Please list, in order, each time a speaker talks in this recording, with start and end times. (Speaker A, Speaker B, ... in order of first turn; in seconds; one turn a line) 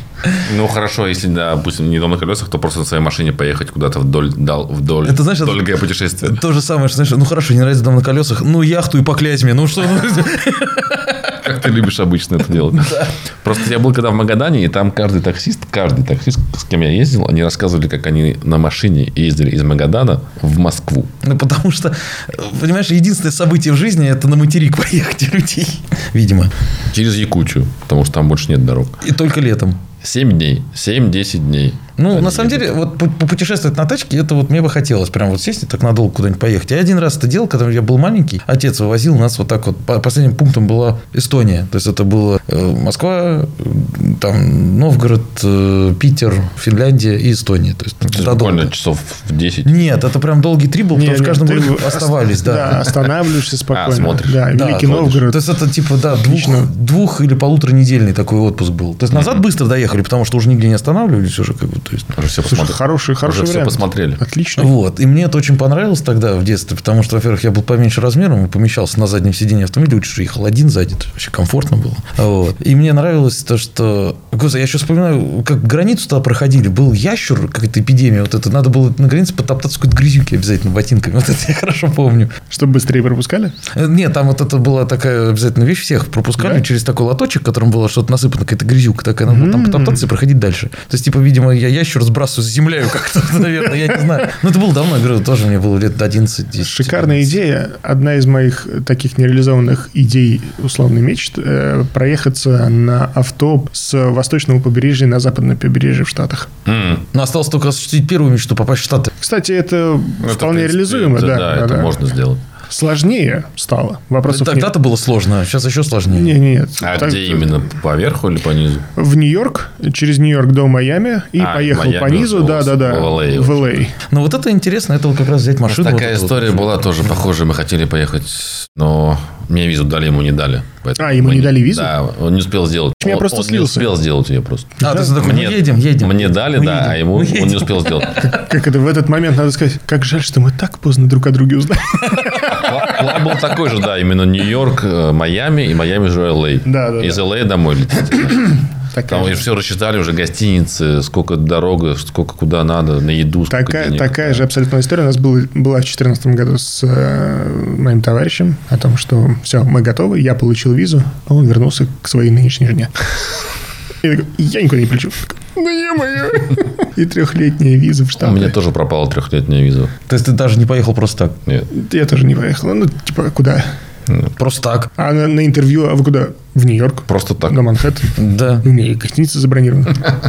Speaker A: 0.4-6.4
Speaker B: 5.0-5.7
Speaker B: 6.2-11.3
Speaker A: 11.4-21.1
Speaker B: 21.2-26.5
Speaker A: 26.9-28.9
Speaker B: 29.0-29.8
Speaker A: 30.0-32.7
Speaker B: 32.0-48.7
Speaker A: 48.0-49.7
Speaker B: 49.6-53.0
Speaker C: 50.9-55.4
Speaker A: 53.7-54.5
Speaker B: 54.5-62.1
Speaker C: 56.1-56.7
Speaker A: 59.1-59.4
Speaker A: 62.1-64.2
Speaker C: 62.5-64.7
Speaker B: 64.6-82.3
Speaker C: 82.5-83.5
Speaker B: 83.7-97.3
Speaker C: 86.4-86.6
Speaker C: 89.3-90.1
Speaker C: 96.6-106.5
Speaker A: 106.7-107.0
Speaker B: 107.1-109.1
Speaker C: 109.2-112.0
Speaker A: 110.2-112.4
Speaker C: 112.7-114.7
Speaker B: 114.3-116.4
Speaker C: 116.1-117.5
Speaker A: 116.8-118.8
Speaker C: 119.0-123.9
Speaker A: 121.4-123.8
Speaker B: 124.1-127.2
Speaker A: 125.7-138.2
Speaker C: 131.0-131.9
Speaker C: 133.0-133.9
Speaker C: 134.8-135.2
Speaker B: 134.8-138.2
Speaker C: 138.1-143.0
Speaker B: 142.5-142.8
Speaker A: 142.5-154.4
Speaker C: 146.7-147.2
Speaker C: 148.9-149.4
Speaker C: 153.5-162.9
Speaker C: 164.0-168.6
Speaker A: 168.2-169.9
Speaker B: 170.1-171.4
Speaker C: 171.7-173.7
Speaker B: 174.4-174.9
Speaker C: 174.9-180.1
Speaker A: 177.1-177.6
Speaker B: 178.2-178.7